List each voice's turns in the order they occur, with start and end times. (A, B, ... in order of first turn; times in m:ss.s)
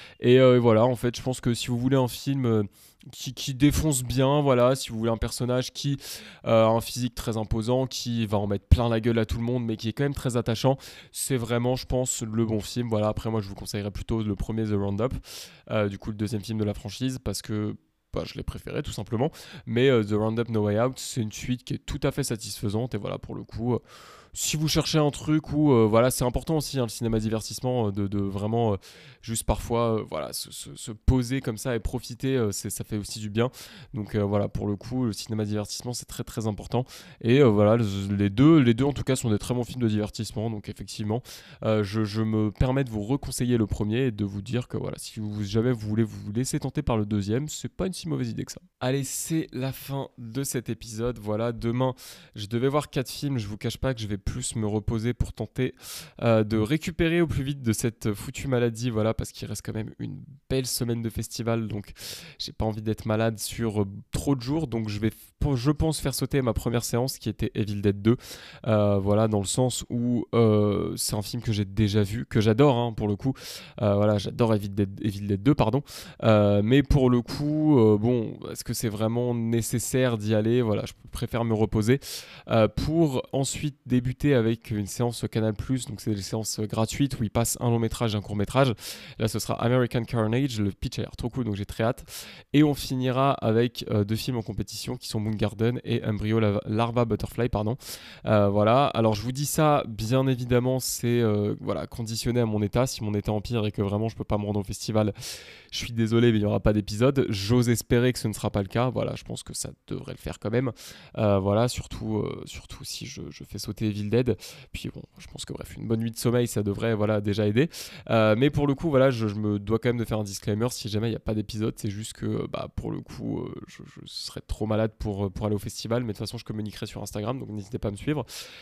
0:00.2-0:15.2 A
0:15.7-0:23.8 A
0:24.3-1:45.1 A
1:45.7-2:08.2 A